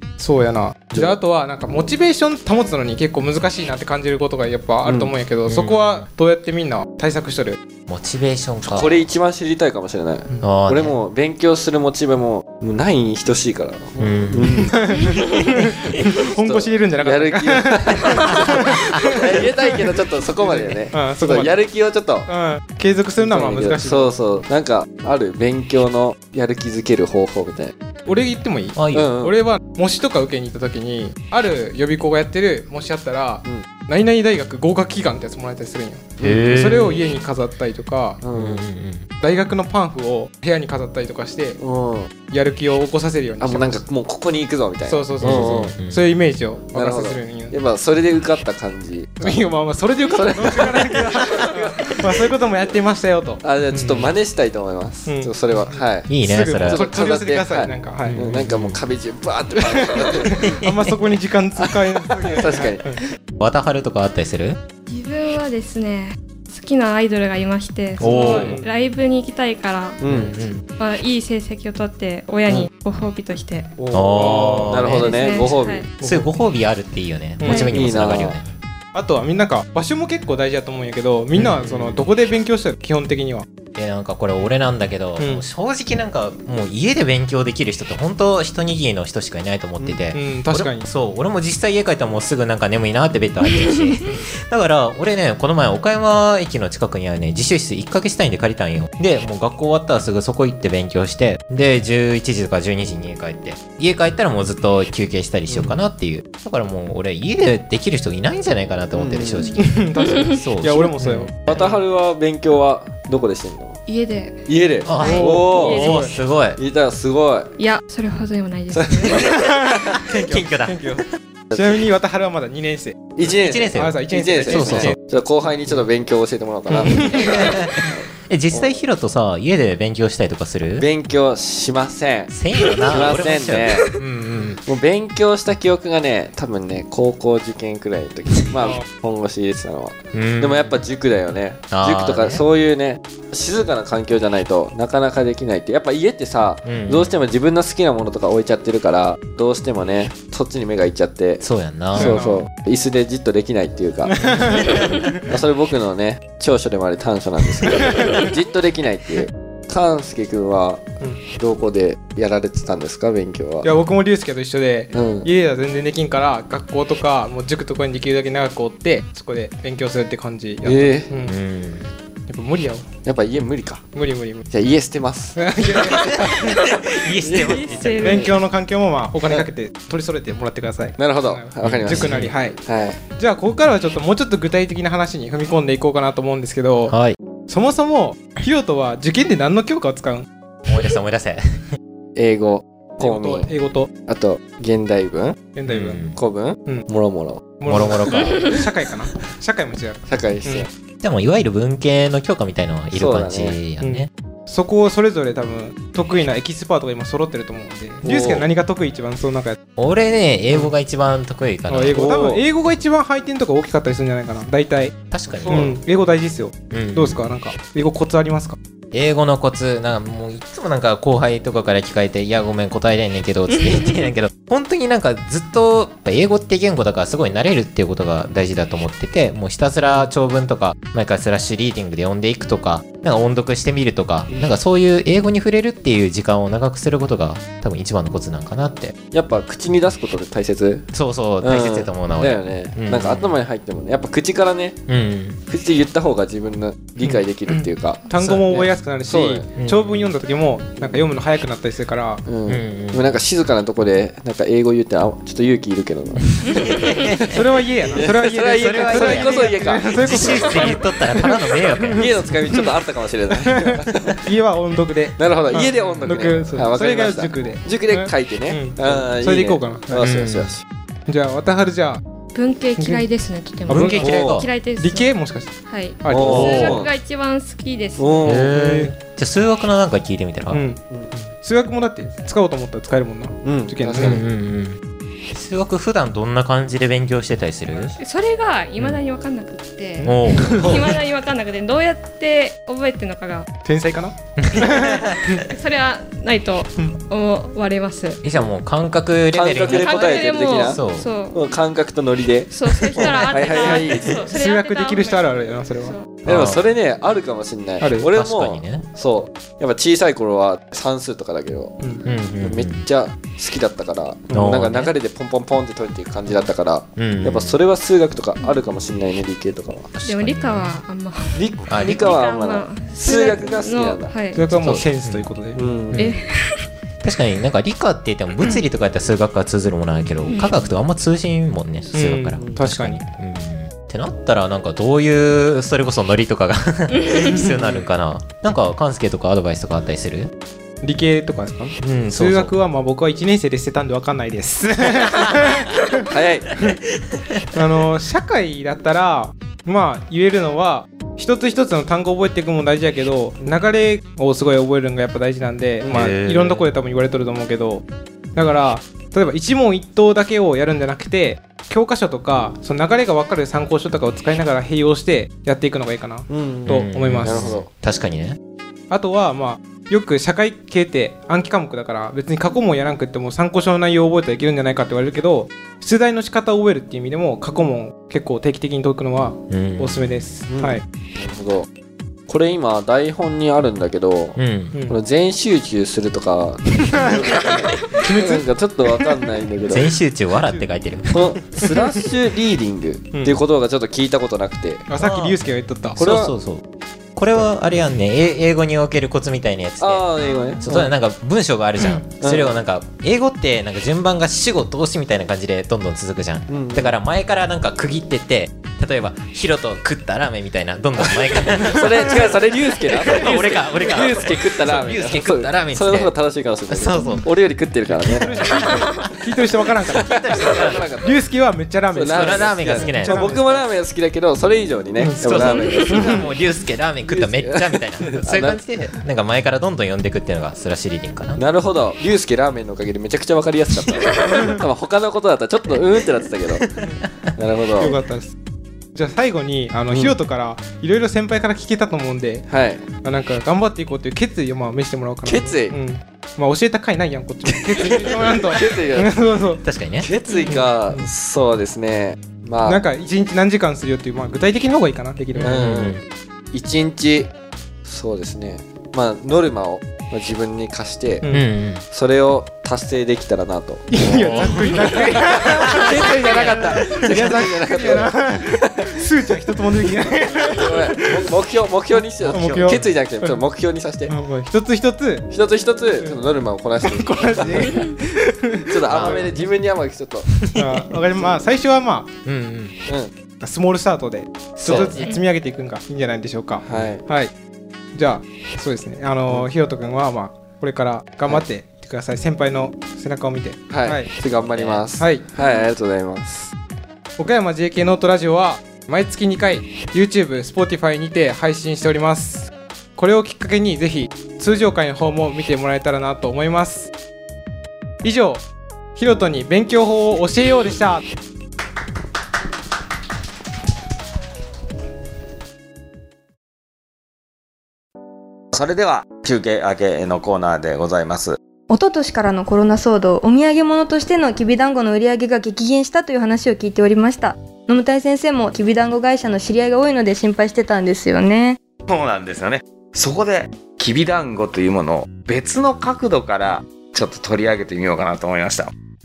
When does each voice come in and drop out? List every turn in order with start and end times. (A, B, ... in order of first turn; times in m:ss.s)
0:00.2-0:07.6 A
0:04.8-0:05.1 B
0:05.5-0:06.1 C
0:07.9-0:09.1 C
0:08.6-0:14.8 B
0:10.4-0:11.0 C
0:14.0-0:14.8 C
0:14.6-0:19.9 A
0:16.3-0:22.3 B
0:18.3-0:19.2 C
0:20.4-0:21.6 A
0:22.3-0:24.2 A
0:23.2-0:27.7 B
0:28.1-0:38.2 A
0:28.8-0:29.1 C
0:28.9-0:29.3 B
0:36.2-0:36.6 B
0:36.2-0:37.0 C
0:38.2-0:38.6 B
0:38.3-0:39.0 C
0:39.2-0:41.6 A
0:41.6-0:42.1 B
0:42.3-0:43.8 A
0:43.4-0:45.7 B
0:44.9-0:47.5 A
0:45.2-0:46.1 C
0:46.7-0:49.4 B
0:49.2-0:54.1 A
0:50.1-0:52.6 B
0:53.4-1:00.5 B
0:55.1-0:58.3 A
0:56.1-0:56.8 C
0:58.1-0:58.8 C
0:59.6-1:03.0 A
1:00.5-1:00.9 C
1:01.6-1:03.0 B
1:03.4-1:04.6 C
1:04.9-1:10.0 D
1:08.0-1:08.6 C
1:08.1-1:08.7 A
1:08.1-1:08.6 B
1:10.0-1:10.4 B
1:10.0-1:10.6 C
1:10.7-1:13.7 D
1:13.8-1:15.0 A
1:13.9-1:18.4 C
1:14.0-1:15.9 B
1:14.9-1:15.9 D
1:16.0-1:16.3 A
1:17.4-1:17.7 A
1:17.5-1:18.4 B
1:18.9-1:23.5 A
1:21.4-1:22.1 C
1:23.8-1:51.7 C
1:25.2-1:25.4 A
1:30.1-1:30.9 A
1:33.5-1:34.0 D
1:45.5-1:45.8 B
1:48.9-1:49.6 B
1:49.6-1:51.5 A
1:51.5-1:53.8 B
1:53.8-1:55.2 D
1:54.5-1:56.0 B
1:54.8-1:56.6 C
1:55.0-1:56.1 A
1:56.6-1:57.5 B
1:57.6-1:59.3 D
1:58.7-1:59.5 B
1:59.3-2:03.1 A
1:59.5-2:01.0 C
2:03.2-2:08.7 B
2:03.2-2:05.0 C
2:03.7-2:05.0 A
2:06.7-2:07.3 A
2:06.9-2:10.9 C
2:10.8-2:12.3 B
2:12.3-2:14.6 C
2:12.8-2:14.0 B
2:14.7-2:31.4 B
2:20.1-2:20.8 C
2:21.7-2:22.4 C
2:26.6-2:27.2 C
2:31.4-2:32.2 C
2:32.0-2:32.5 A
2:32.0-2:43.7 B
2:34.1-2:35.1 A
2:34.2-2:35.1 C
2:43.6-2:51.3 A
2:44.9-2:45.3 B
2:50.6-2:51.1 B
2:51.2-2:51.9 C
2:52.3-2:52.9 A
2:53.0-2:53.8 B
2:53.9-2:54.5 A
2:54.5-2:55.7 B
2:55.4-2:56.6 A
2:56.0-2:58.3 C
2:57.2-2:58.3 B
2:57.4-2:58.3 D
2:58.0-3:07.0 A
3:01.0-3:03.0 B
3:01.6-3:02.3 C
3:06.9-3:07.2 C
3:07.5-3:10.3 A
3:10.7-3:11.6 C
3:12.2-3:13.5 B
3:13.0-3:13.9 A
3:14.0-3:15.4 B
3:15.5-3:16.0 A
3:15.7-3:16.2 C
3:16.2-3:17.6 B
3:17.6-3:20.7 A
3:17.7-3:18.5 C
3:20.1-3:20.7 B
3:21.0-3:24.1 C
3:22.9-3:23.6 B
3:23.8-3:29.6 A
3:28.0-3:28.5 B
3:29.8-3:32.0 C
3:31.7-3:35.0 A
3:31.9-3:32.4 B
3:35.1-3:35.8 C
3:35.4-3:35.8 B
3:35.5-3:38.6 A
3:36.7-3:37.2 C
3:38.9-3:59.0 C
3:59.1-4:04.8 B
4:00.9-4:03.4 C
4:04.9-4:05.4 C
4:05.5-4:09.5 B
4:07.0-4:12.2 A
4:08.2-4:08.6 C
4:09.6-4:10.1 C
4:12.3-4:17.4 B
4:12.5-4:13.2 C
4:16.4-4:17.4 C
4:17.3-4:22.0 A
4:17.9-4:20.6 B
4:18.4-4:22.4 C
4:21.9-4:24.2 B
4:23.3-4:30.0 A
4:25.2-4:30.6 B
4:25.8-4:26.1 C
4:30.0-4:30.5 C
4:31.1-4:32.0 A
4:32.3-4:35.1 D
4:32.8-4:33.0 A
4:33.7-4:34.5 C
4:33.7-4:34.1 A
4:34.0-4:34.5 B
4:34.8-4:36.8 A
4:35.7-4:38.3 D
4:36.1-4:36.9 B
4:38.0-4:38.5 B
4:38.2-4:40.6 C
4:38.4-4:38.9 A
4:40.5-4:44.2 A
4:43.4-4:44.2 B
4:44.0-4:44.8 C
4:45.3-4:47.9 C
4:48.0-4:53.5 D
4:50.0-4:50.8 A
4:50.0-4:51.0 C
4:53.6-4:55.4 A
4:54.4-4:55.2 C
4:55.4-4:58.2 D
4:58.2-5:01.1 C
4:59.3-5:04.3 B
4:59.6-5:01.5 D
5:02.5-5:06.2 D
5:03.0-5:03.2 C
5:03.6-5:06.0 A
5:06.2-5:06.6 C
5:06.2-5:11.8 B
5:07.8-5:08.1 A
5:08.0-5:08.9 C
5:12.0-5:12.9 C
5:12.4-5:20.0 B
5:14.3-5:14.9 C
5:17.0-5:17.6 C
5:20.0-5:20.8 C
5:20.0-5:24.4 D
5:21.4-5:24.8 B
5:21.7-5:22.2 C
5:24.3-5:25.6 A
5:24.5-5:25.3 C
5:25.5-5:26.2 B
5:25.9-5:26.2 C
5:26.0-5:26.7 D
5:27.0-5:40.3 C
5:30.3-5:30.6 D
5:31.9-5:33.0 A
5:32.4-5:32.6 B
5:36.9-5:37.3 D
5:37.3-5:37.8 A
5:40.8-5:45.7 A
5:41.8-5:42.6 C
5:46.1-5:46.6 B
5:47.5-6:07.5 A
5:55.8-5:56.7 C
6:06.3-6:07.7 B
6:06.7-6:08.4 C
6:08.9-6:20.8 A
6:19.5-6:20.4 C
6:20.5-6:21.7 B
6:22.3-6:30.0 B
6:24.4-6:24.8 C
6:27.9-6:28.4 A
6:29.7-6:31.6 C
6:31.1-6:34.8 B
6:34.9-6:36.0 A
6:35.0-6:35.4 C
6:36.0-6:36.6 C
6:36.0-6:36.3 B
6:37.1-6:56.1 C
6:39.8-6:40.9 B
6:42.2-6:42.5 B
6:46.5-6:47.0 B
6:51.6-6:58.6 B
6:56.7-6:57.3 C
6:57.9-7:00.1 A
6:57.9-6:58.8 C
6:59.9-7:00.9 C
6:59.9-7:01.1 B
7:01.0-7:03.7 A
7:01.9-7:06.4 B
7:02.1-7:03.4 C
7:05.0-7:06.3 A
7:05.2-7:11.4 C
7:07.0-7:08.6 B
7:11.4-7:16.8 B
7:17.4-7:18.0 B
7:17.8-7:18.4 A
7:19.0-7:29.6 A
7:22.5-7:22.8 B
7:25.2-7:25.8 B
7:27.5-7:29.1 B
7:29.6-7:30.1 C
7:30.0-7:32.8 B
7:30.5-7:31.1 A
7:32.6-7:35.6 A
7:35.4-7:36.0 C
7:35.4-7:36.0 B
7:36.5-7:37.3 B
7:37.8-7:41.2 B
7:41.2-7:41.8 C
7:41.9-7:49.0 B
7:43.9-7:51.2 A
7:44.1-7:47.0 C
7:50.0-7:54.1 B
7:52.2-7:53.4 A
7:52.3-7:52.8 E
7:54.1-7:55.3 A
7:55.3-7:57.9 B
7:56.8-7:59.4 A
7:58.7-8:00.5 B
7:58.9-7:59.3 C
8:00.5-8:02.1 A
8:02.2-8:02.8 C
8:02.9-8:03.1 B
8:03.4-8:07.3 A
8:04.6-8:05.1 C
8:06.6-8:07.0 B
8:07.9-8:14.1 A
8:13.7-8:16.5 B
8:14.5-8:14.8 C
8:15.0-8:15.2 A
8:17.2-8:26.9 A
8:28.0-8:28.4 A
8:29.0-8:31.0 A
8:38.5-8:41.4 E
8:41.7-8:51.6 F
8:51.9-8:58.7 E